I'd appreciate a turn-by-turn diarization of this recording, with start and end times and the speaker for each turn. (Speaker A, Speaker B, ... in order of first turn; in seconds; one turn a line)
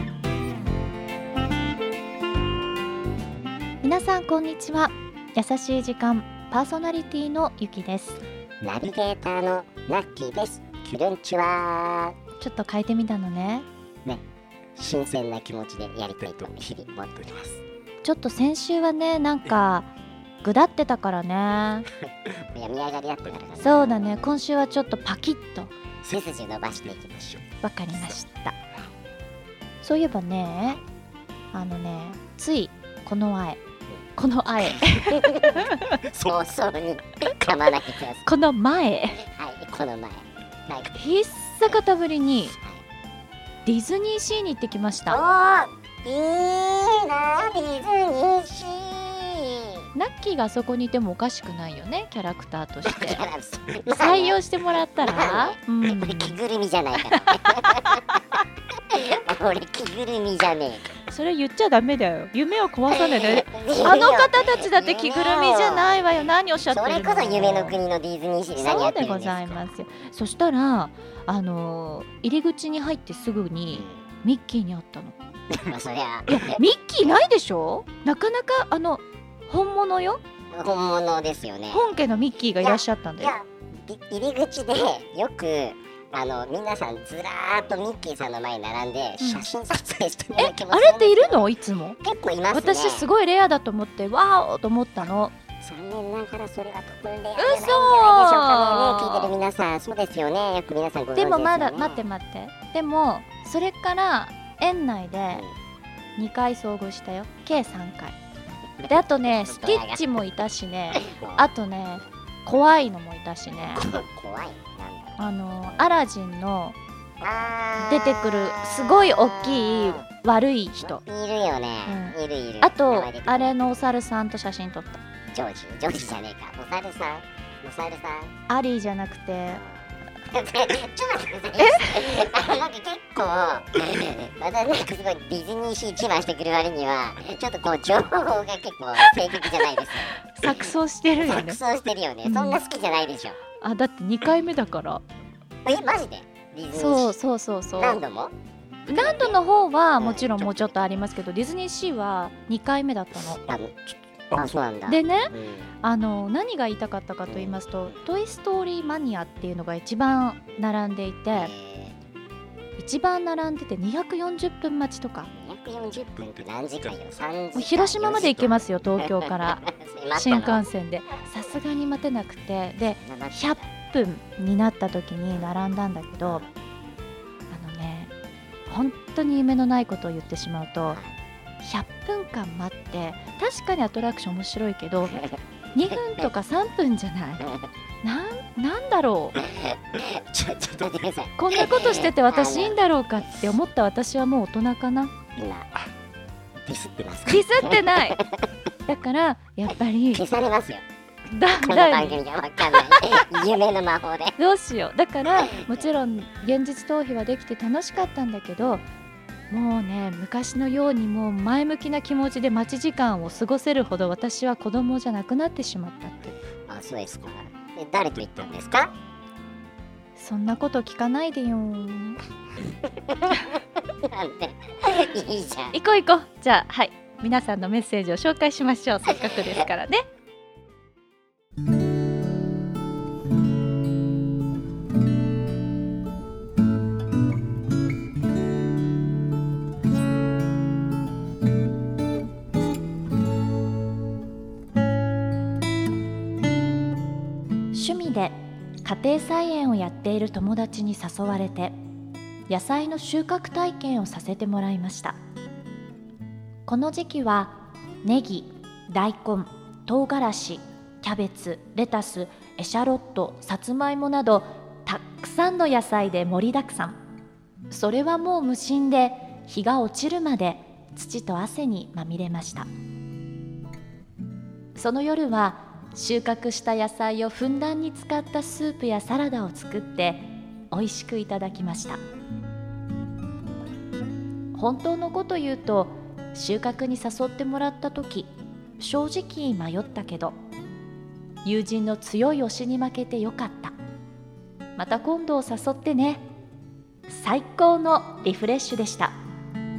Speaker A: 3.8-8.2
Speaker B: 8.6-12.2
Speaker A: 12.4-13.7
Speaker B: 14.8-17.6
Speaker A: 18.0-19.9
Speaker A: 20.4-21.9
Speaker B: 22.3-24.1
Speaker A: 23.6-25.7
Speaker B: 26.0-27.4
Speaker A: 27.6-28.6
Speaker A: 29.8-30.8
Speaker A: 31.5-33.6
Speaker A: 34.2-36.0
Speaker B: 34.9-38.3
Speaker A: 38.2-39.2
Speaker B: 39.2-41.0
Speaker A: 40.9-42.6
Speaker B: 42.6-42.8
Speaker A: 43.6-45.2
Speaker B: 45.1-49.9
Speaker A: 50.0-53.2
Speaker B: 52.8-58.1
Speaker A: 53.9-56.4
Speaker A: 57.3-58.0
Speaker B: 58.9-60.9
Speaker A: 61.1-67.8
Speaker B: 62.9-66.1
Speaker B: 66.7-69.7
Speaker A: 68.5-75.2
Speaker B: 73.7-74.1
Speaker B: 75.5-76.6
Speaker A: 76.3-80.2
Speaker B: 80.5-81.9
Speaker A: 81.7-83.4
Speaker B: 82.5-91.5
Speaker A: 89.2-89.5
Speaker A: 90.4-92.0
Speaker B: 92.0-93.1
Speaker A: 92.5-95.3
Speaker B: 95.6-102.0
Speaker A: 97.4-99.3
Speaker A: 101.2-105.5
Speaker B: 105.3-105.6
Speaker A: 106.2-108.2
Speaker B: 108.8-110.0
Speaker A: 108.9-113.9
Speaker B: 111.0-111.5
Speaker B: 113.6-116.0
Speaker A: 115.2-116.8
Speaker B: 117.2-120.0
Speaker A: 117.8-121.0
Speaker B: 120.8-123.9
Speaker A: 121.9-125.0
Speaker B: 125.3-128.3
Speaker A: 128.5-129.6
Speaker B: 129.5-143.4
Speaker A: 131.6-132.1
Speaker A: 139.4-141.6
Speaker A: 142.2-142.6
Speaker A: 143.6-145.0
Speaker B: 145.7-147.2
Speaker A: 146.7-148.0
Speaker B: 147.8-148.3
Speaker A: 148.9-153.4
Speaker B: 148.9-149.4
Speaker B: 150.0-151.1
Speaker B: 153.4-155.7
Speaker A: 154.9-161.5
Speaker B: 157.3-158.0
Speaker B: 161.3-162.0
Speaker A: 162.8-165.3
Speaker B: 165.3-170.7
Speaker A: 167.6-176.4
Speaker B: 172.8-173.7
Speaker A: 177.5-178.1
Speaker A: 178.7-181.0
Speaker B: 180.9-181.2
Speaker A: 181.6-187.5
Speaker B: 185.1-186.0
Speaker A: 188.0-189.4
Speaker B: 189.4-192.8
Speaker A: 191.4-195.1
Speaker B: 195.4-195.9
Speaker B: 196.7-198.5
Speaker A: 197.3-198.2
Speaker A: 198.9-200.3
Speaker B: 200.1-200.8
Speaker A: 201.3-203.2
Speaker B: 201.6-204.4
Speaker A: 204.4-208.9
Speaker B: 205.3-205.7
Speaker A: 209.5-216.3
Speaker B: 216.7-218.9
Speaker A: 220.2-222.2
Speaker B: 222.6-225.8
Speaker A: 225.7-230.1
Speaker B: 229.1-229.3
Speaker A: 247.7-251.8
Speaker A: 252.5-255.2
Speaker A: 256.7-267.0
Speaker A: 267.7-272.7
Speaker A: 274.8-282.0
Speaker A: 284.5-290.4
Speaker A: 291.4-293.7
Speaker A: 294.8-296.2
Speaker A: 297.1-299.1